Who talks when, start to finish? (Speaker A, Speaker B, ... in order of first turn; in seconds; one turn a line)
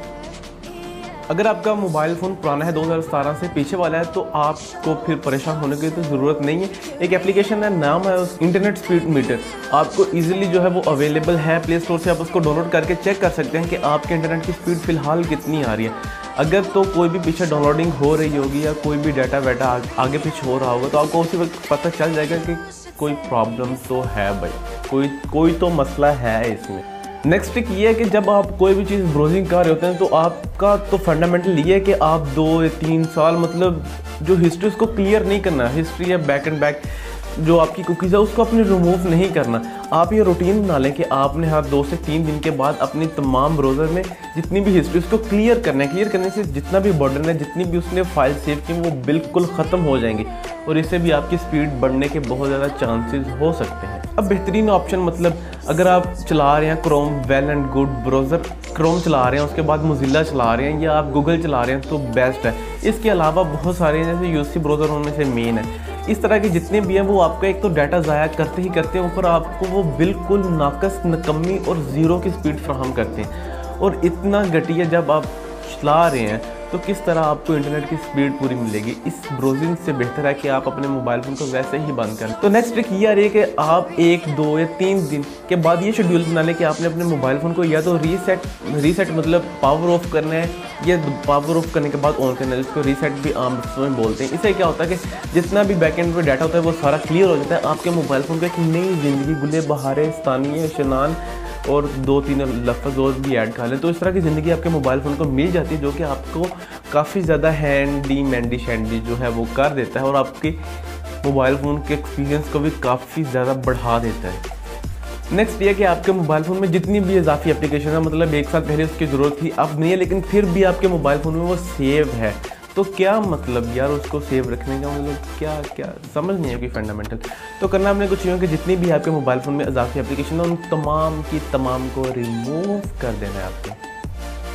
Speaker A: 1.3-110.6
Speaker A: 111.2-114.4
Speaker A: 115.3-133.8